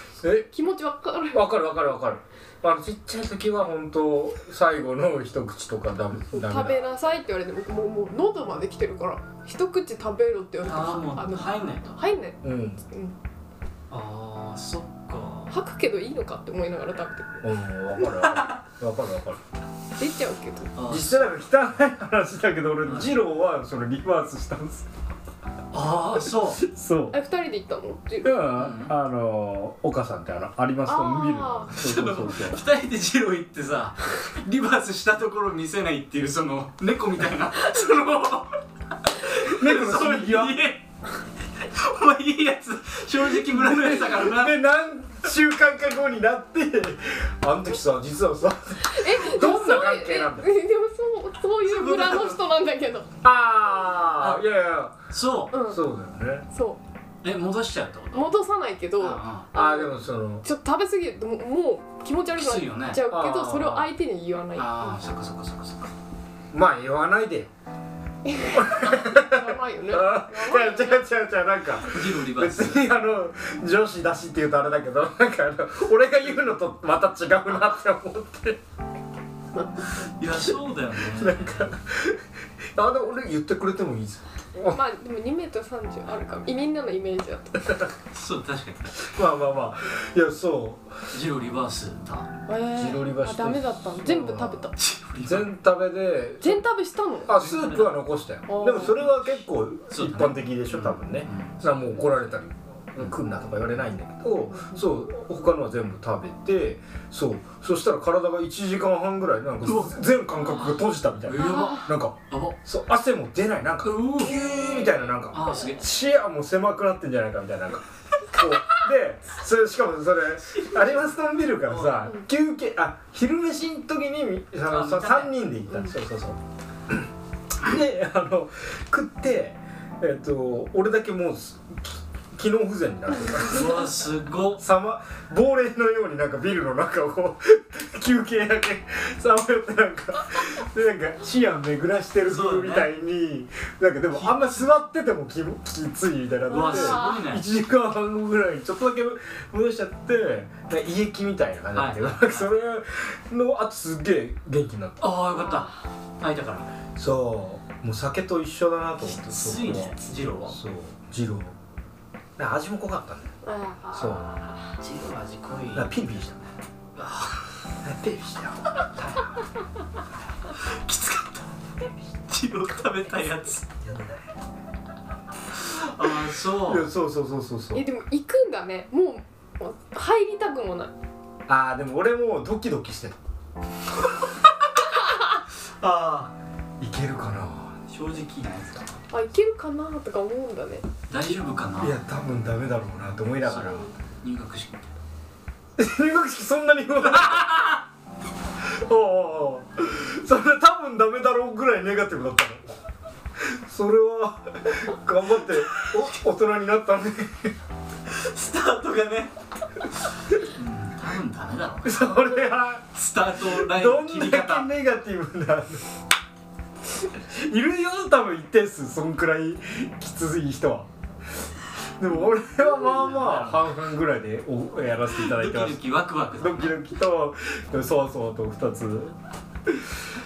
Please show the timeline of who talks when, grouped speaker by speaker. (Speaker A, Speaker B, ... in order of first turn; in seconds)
Speaker A: 0.2-0.5, 1.3-6.8, 12.4-12.8, 17.4-19.4, 20.9-24.9, 26.6-27.2, 28.2-32.6, 39.4-40.6, 43.4-50.5, 53.2-54.9, 55.6-56.5, 59.5-60.4, 63.1-63.9, 66.5-67.5, 68.5-78.6, 81.1-82.2, 82.8-84.8, 89.0-91.1, 92.7-94.7, 95.2-96.6, 97.2-127.1, 127.6-133.8, 134.6-155.1, 156.9-161.5, 162.4-163.3, 163.9-164.3, 165.7-166.4, 167.8-169.3, 176.6-177.8, 181.5-183.2, 186.8-187.8, 191.8-193.9, 195.8-197.8, 198.6-202.7, 203.4-207.5, 211.8-212.8, 213.5-215.8, 217.1-220.9, 222.0-225.8, 226.4-229.1, 229.7-229.9
Speaker B: 0.5-1.5, 6.3-13.2, 15.5-17.4, 20.0-20.8, 27.1-28.4, 30.9-31.8, 48.8-53.1, 55.5-55.8, 56.5-56.8, 58.1-65.0, 68.2-71.0, 84.7-87.9, 92.5-94.7, 96.4-97.3, 98.5-99.0, 104.5-104.8, 111.4-111.9, 146.5-147.2, 155.5-155.7, 163.4-164.7, 177.7-180.9, 189.1-190.9
Speaker C: 10.6-12.0, 13.9-15.5, 18.2-18.6, 20.8-21.3, 22.8-23.1, 25.7-26.6, 28.6-28.9, 31.8-40.9, 41.6-44.6, 51.6-52.4, 55.1-55.5, 57.2-58.4, 59.0-59.5, 62.4-63.0, 64.5-65.9, 71.8-72.8, 80.2-81.8, 88.1-89.1, 91.1-92.3, 94.8-95.5, 97.3-98.0, 98.8-102.2, 109.6-112.6, 113.8-115.8, 120.6-121.0, 121.7-122.1, 124.7-125.4, 133.4-134.6, 142.2-142.9, 144.1-144.7, 146.5-147.4, 151.7-152.5, 155.0-156.7, 159.0-160.6, 164.8-166.0, 166.9-167.5, 170.5-173.8, 175.6-176.9, 185.8-186.3, 187.9-189.0, 191.1-192.0, 193.4-194.9, 208.1-209.3, 210.4-212.4, 212.9-214.7, 222.8-223.7, 225.2-226.8